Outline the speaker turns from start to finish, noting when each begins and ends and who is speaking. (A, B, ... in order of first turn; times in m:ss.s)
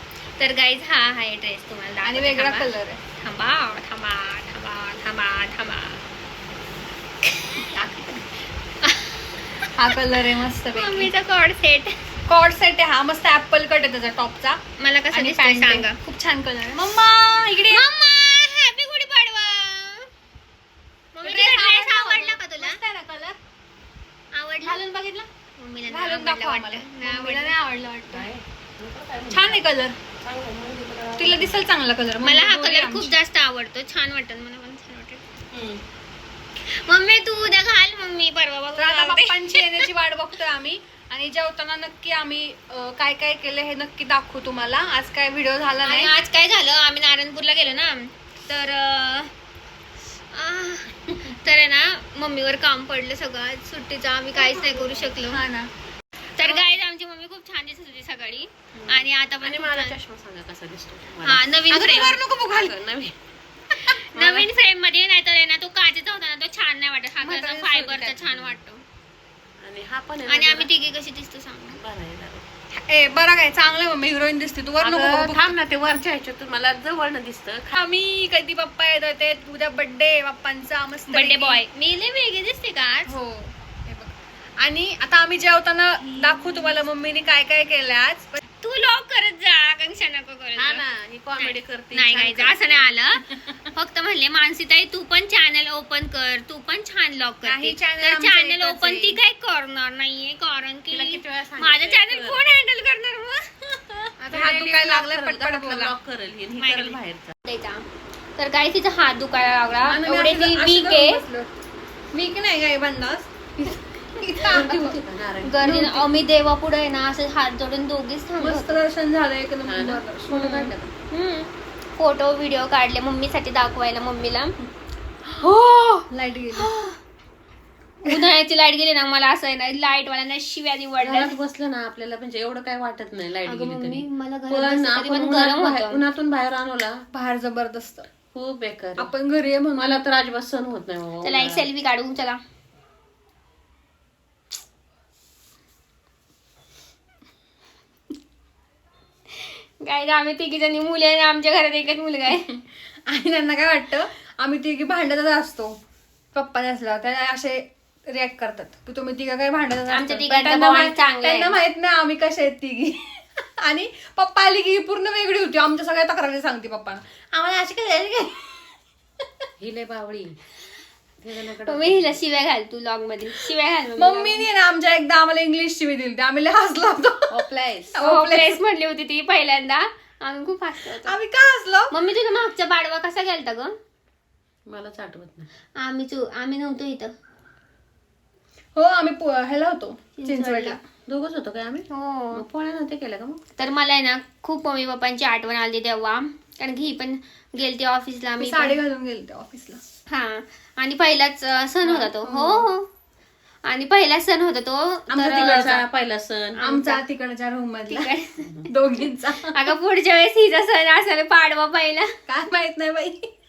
0:00.4-0:06.0 A
0:02.0-0:03.0 B
0:07.2-0:08.2 A
0:08.8-0:09.9 A
0:09.7-0:11.1 B
0:10.7-0:12.0 A
0:12.3-0:17.8 B
0:14.8-0:16.0 A
0:17.7-0:20.1 A
0:21.1-0:22.8 A
0:21.2-0:23.4 B
0:24.3-0:24.8 A
0:24.6-0:25.3 B
0:25.6-0:27.5 A
0:25.9-0:28.3 B
0:28.1-0:29.6 C
0:29.3-0:29.9 B
0:30.2-0:31.6 C
0:31.2-0:33.1 B
0:32.2-0:35.2 A
0:35.5-0:35.8 C
0:36.6-0:39.9 A
0:38.8-0:46.1 B
0:45.8-0:49.3 A
0:50.3-0:55.4 A
0:54.4-0:55.7 B
0:56.4-1:00.0 A
0:58.8-1:03.2 C
1:01.2-1:02.2 A
1:01.7-1:02.7 B
1:03.8-1:04.4 B
1:03.9-1:08.8 A
1:07.2-1:08.2 B
1:09.6-1:10.7 C
1:10.2-1:11.8 A
1:11.8-1:12.4 C
1:12.7-1:15.6 B
1:14.8-1:17.7 C
1:17.7-1:21.6 B
1:21.1-1:23.1 A
1:23.1-1:28.4 B
1:26.2-1:26.8 C
1:28.6-1:30.8 A
1:30.6-1:32.9 C
1:31.4-1:44.1 A
1:37.4-1:39.2 B
1:40.9-1:42.4 C
1:44.2-1:45.9 B
1:44.3-1:47.3 C
1:46.6-1:47.8 A
1:48.4-1:51.2 A
1:49.9-1:51.5 B
1:52.1-1:55.0 B
1:54.4-1:55.5 C
1:55.4-1:58.8 A
1:55.6-1:56.0 B
1:58.4-2:00.9 B
1:59.7-2:00.7 C
2:00.3-2:04.6 A
2:05.4-2:07.0 A
2:06.1-2:06.7 B
2:08.0-2:11.3 A
2:11.0-2:17.0 C
2:13.4-2:16.0 A
2:17.1-2:18.1 B
2:18.3-2:19.1 C
2:19.0-2:20.0 B
2:19.8-2:21.6 C
2:21.2-2:22.4 A
2:29.3-2:32.5 A
2:32.5-2:35.8 B
2:36.3-2:48.7 B
2:39.9-2:41.6 A
2:49.6-2:50.4 C
2:51.2-2:52.2 C
2:51.6-2:54.4 A
2:54.0-2:57.4 B
2:57.3-2:58.0 C
2:57.9-2:58.6 B
2:58.0-3:01.2 A
3:01.0-3:01.9 B
3:01.9-3:03.8 A
3:04.7-3:05.5 C
3:05.8-3:07.1 A
3:08.8-3:10.8 B
3:10.2-3:10.8 A
3:11.0-3:13.4 C
3:11.9-3:12.4 A
3:13.6-3:18.8 A
3:18.4-3:19.8 B
3:20.1-3:22.9 A
3:21.8-3:22.7 B
3:23.6-3:25.7 A
3:25.1-3:25.8 B
3:25.2-3:26.7 C
3:26.6-3:28.1 B
3:26.7-3:27.0 A
3:27.9-3:28.6 A
3:28.6-3:29.7 B
3:29.4-3:32.1 A
3:32.3-3:33.3 B